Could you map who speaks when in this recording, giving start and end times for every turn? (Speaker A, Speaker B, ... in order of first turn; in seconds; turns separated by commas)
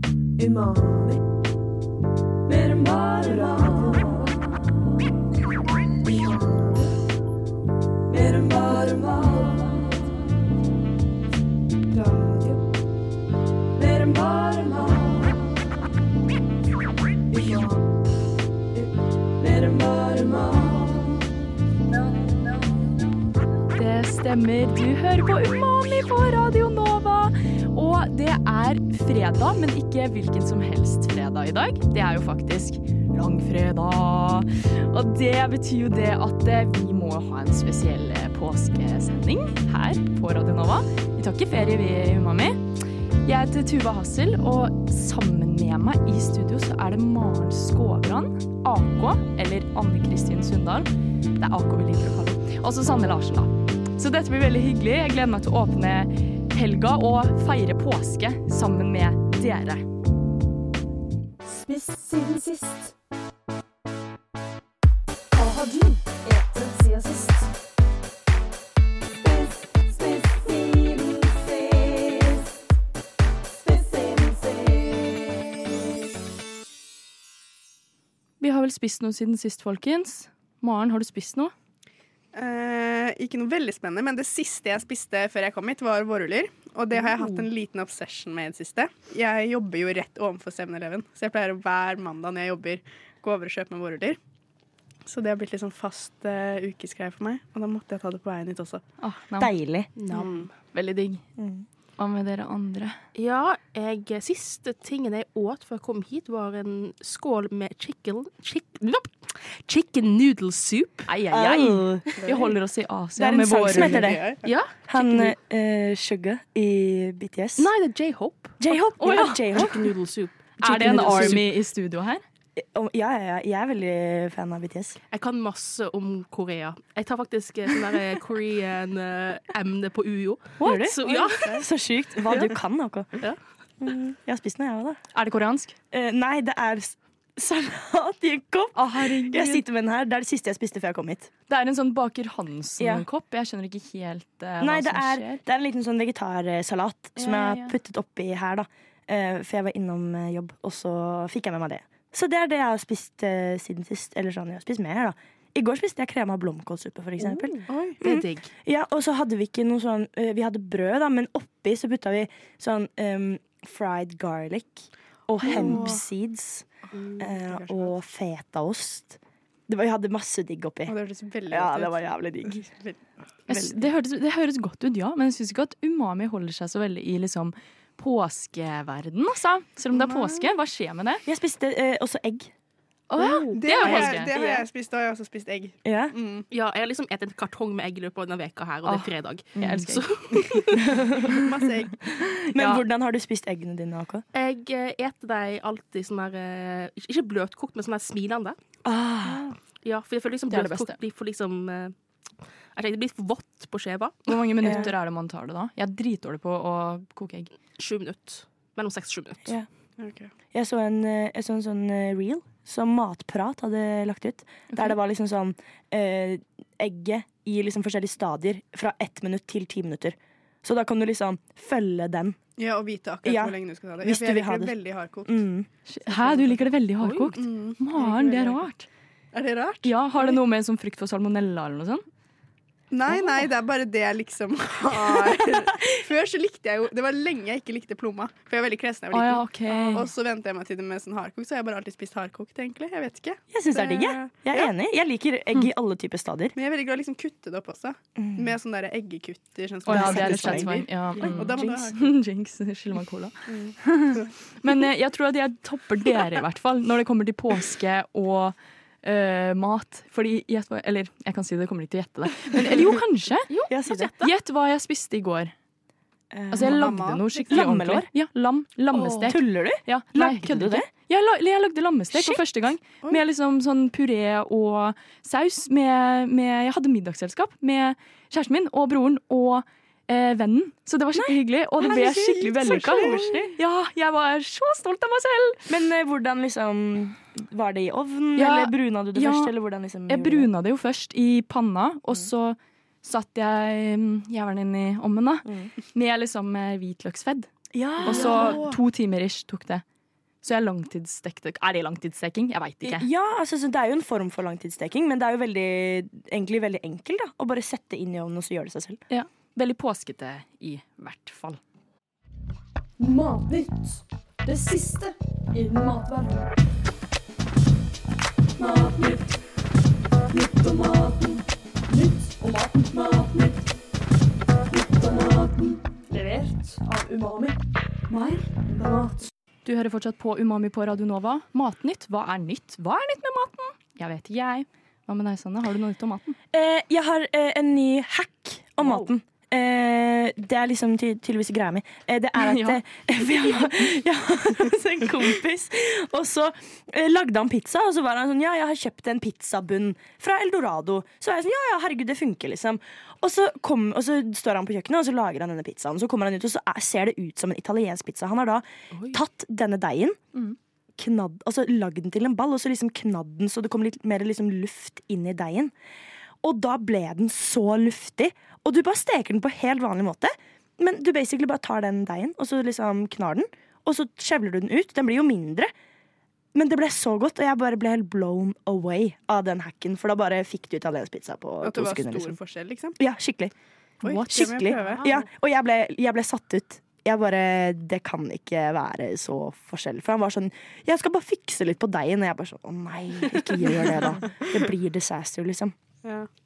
Speaker A: 0.4-1.2, Speaker A: 2.5-4.4, Speaker A: 6.0-6.9, Speaker A: 8.1-10.1, Speaker A: 11.9-12.6, Speaker A: 13.8-15.5, Speaker A: 17.3-17.8, Speaker A: 19.4-21.2, Speaker B: 23.8-42.6, Speaker B: 43.2-59.9, Speaker A: 61.5-62.8, Speaker A: 65.3-67.4, Speaker A: 70.0-71.2, Speaker A: 73.7-74.5, Speaker B: 78.4-81.5, Speaker C: 82.3-94.2, Speaker D: 87.0-87.4, Speaker C: 95.1-98.8, Speaker B: 99.0-99.5, Speaker E: 99.4-99.9, Speaker D: 100.0-100.5, Speaker C: 100.1-100.5, Speaker B: 100.7-101.2, Speaker E: 101.4-101.6, Speaker B: 102.0-103.0, Speaker D: 103.2-111.1, Speaker B: 111.1-114.1, Speaker E: 111.3-112.1, Speaker C: 112.2-112.5, Speaker E: 113.2-117.7, Speaker C: 113.7-114.5, Speaker D: 114.4-114.7, Speaker B: 115.0-115.3, Speaker D: 117.6-118.5, Speaker E: 118.6-119.9, Speaker B: 119.0-119.7, Speaker D: 119.0-121.5, Speaker B: 120.6-122.2, Speaker E: 120.6-121.5, Speaker E: 122.6-125.0, Speaker D: 125.1-131.7, Speaker B: 130.6-131.3, Speaker E: 130.6-133.1, Speaker D: 132.2-132.6, Speaker E: 133.8-135.0, Speaker B: 135.1-135.8, Speaker E: 135.9-141.3, Speaker B: 138.8-139.6, Speaker B: 141.5-145.4, Speaker E: 142.8-143.1, Speaker E: 144.6-166.7, Speaker B: 147.2-147.8, Speaker C: 157.7-157.9, Speaker D: 158.0-158.5, Speaker C: 165.4-166.0, Speaker C: 166.9-167.9, Speaker E: 167.2-171.0, Speaker C: 170.9-173.0, Speaker E: 171.5-172.7, Speaker B: 173.5-181.2, Speaker C: 179.9-180.5, Speaker E: 181.3-182.5, Speaker B: 183.1-184.3, Speaker E: 183.2-184.7, Speaker C: 183.5-186.5, Speaker E: 185.8-186.1, Speaker D: 186.5-190.9, Speaker B: 188.8-190.6, Speaker E: 189.6-189.9, Speaker E: 190.8-191.4, Speaker C: 191.3-192.0, Speaker B: 192.3-192.8, Speaker E: 192.5-194.2, Speaker D: 194.3-198.6, Speaker E: 198.8-199.6, Speaker D: 199.8-201.9, Speaker B: 200.5-201.0, Speaker D: 202.8-204.8, Speaker B: 204.3-207.5, Speaker E: 204.6-204.9, Speaker D: 207.8-209.6, Speaker C: 210.0-210.3, Speaker E: 210.5-222.4, Speaker C: 222.6-225.4, Speaker E: 223.2-225.7, Speaker B: 225.9-228.9, Speaker C: 226.1-226.6, Speaker C: 227.3-228.6, Speaker C: 229.3-230.3, Speaker B: 229.8-232.0, Speaker C: 232.9-244.7, Speaker E: 235.3-235.7, Speaker B: 239.1-240.1, Speaker E: 243.5-246.6, Speaker C: 246.6-252.1, Speaker E: 248.2-248.6, Speaker B: 249.9-263.5, Speaker E: 249.9-251.9, Speaker C: 253.5-254.3, Speaker D: 263.5-264.3, Speaker E: 263.7-264.1, Speaker B: 264.2-265.5, Speaker E: 266.3-268.1, Speaker B: 266.5-285.7, Speaker C: 266.6-267.7, Speaker E: 269.0-270.9, Speaker E: 272.1-272.4, Speaker E: 281.1-283.6, Speaker C: 282.6-283.4, Speaker E: 285.7-290.5, Speaker B: 288.4-289.5, Speaker B: 290.1-297.5, Speaker E: 295.4-295.7, Speaker E: 297.7-298.8, Speaker B: 298.0-299.8, Speaker C: 298.1-298.7, Speaker B: 300.4-303.1, Speaker E: 302.8-309.0, Speaker B: 309.1-311.6, Speaker A: 313.0-316.4, Speaker A: 318.6-319.2, Speaker A: 320.3-323.6, Speaker A: 324.7-327.6, Speaker A: 328.1-329.3, Speaker B: 329.6-336.4, Speaker E: 336.5-360.2, Speaker B: 342.4-342.8, Speaker E: 361.0-365.7, Speaker E: 366.4-375.7, Speaker E: 376.5-382.4, Speaker C: 381.6-383.0, Speaker E: 383.0-383.5, Speaker C: 384.0-385.2, Speaker B: 384.1-385.0, Speaker E: 384.1-395.8